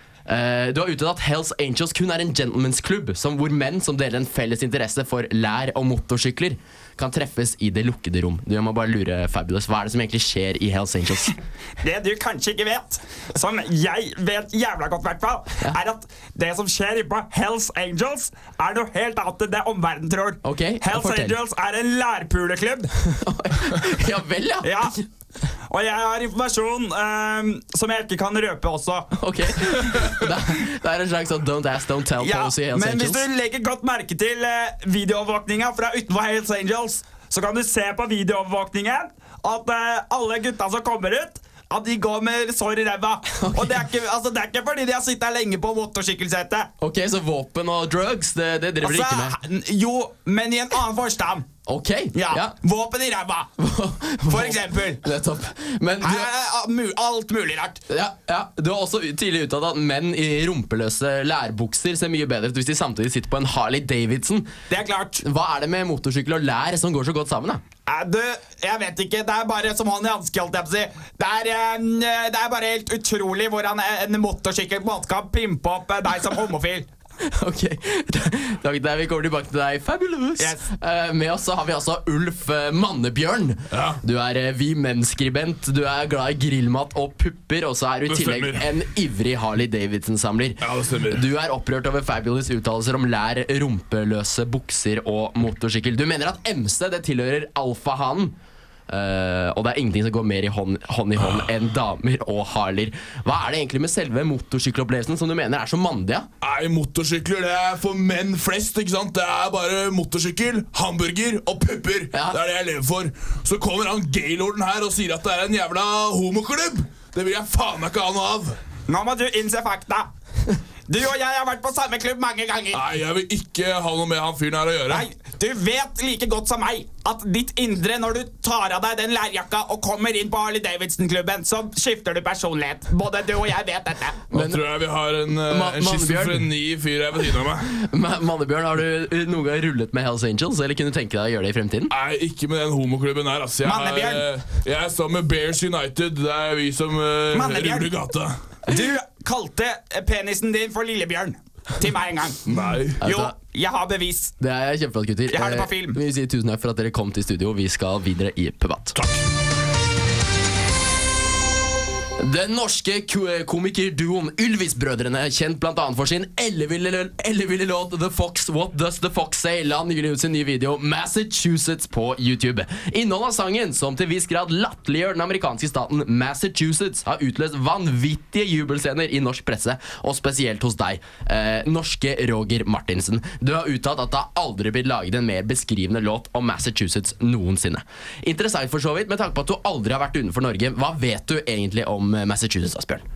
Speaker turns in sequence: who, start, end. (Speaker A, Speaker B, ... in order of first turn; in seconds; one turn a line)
Speaker A: 0.3-11.3
Speaker B: 11.8-22.9
Speaker A: 20.4-21.4
Speaker A: 23.1-25.0
Speaker B: 24.6-24.9
Speaker B: 25.7-29.1
Speaker A: 29.2-33.3
Speaker B: 29.7-30.1
Speaker B: 32.2-46.7
Speaker A: 43.3-43.9
Speaker A: 46.8-49.4
Speaker B: 48.8-51.5
Speaker A: 51.7-52.5
Speaker B: 52.1-53.5
Speaker A: 53.6-56.3
Speaker B: 54.3-55.0
Speaker B: 56.0-57.8
Speaker A: 57.9-64.5
Speaker B: 64.7-65.2
Speaker A: 65.2-67.6
Speaker B: 67.9-76.9
Speaker A: 77.3-98.3
Speaker B: 80.4-80.7
Speaker C: 83.7-84.0
Speaker C: 88.1-88.7
Speaker C: 90.6-91.2
Speaker A: 98.9-106.3
Speaker C: 106.4-118.6
Speaker A: 112.1-112.4
Speaker B: 118.9-120.1
Speaker B: 120.9-122.8
Speaker C: 122.7-125.0
Speaker B: 124.9-134.2
Speaker A: 134.3-134.6
Speaker C: 134.3-137.7
Speaker A: 135.5-136.5
Speaker A: 137.8-141.9
Speaker C: 141.9-148.4
Speaker B: 143.6-144.3
Speaker B: 147.3-147.9
Speaker B: 148.7-152.5
Speaker C: 152.5-153.0
Speaker A: 153.0-153.3
Speaker B: 153.0-154.3
Speaker A: 154.4-159.0
Speaker B: 155.3-156.0
Speaker A: 162.2-193.1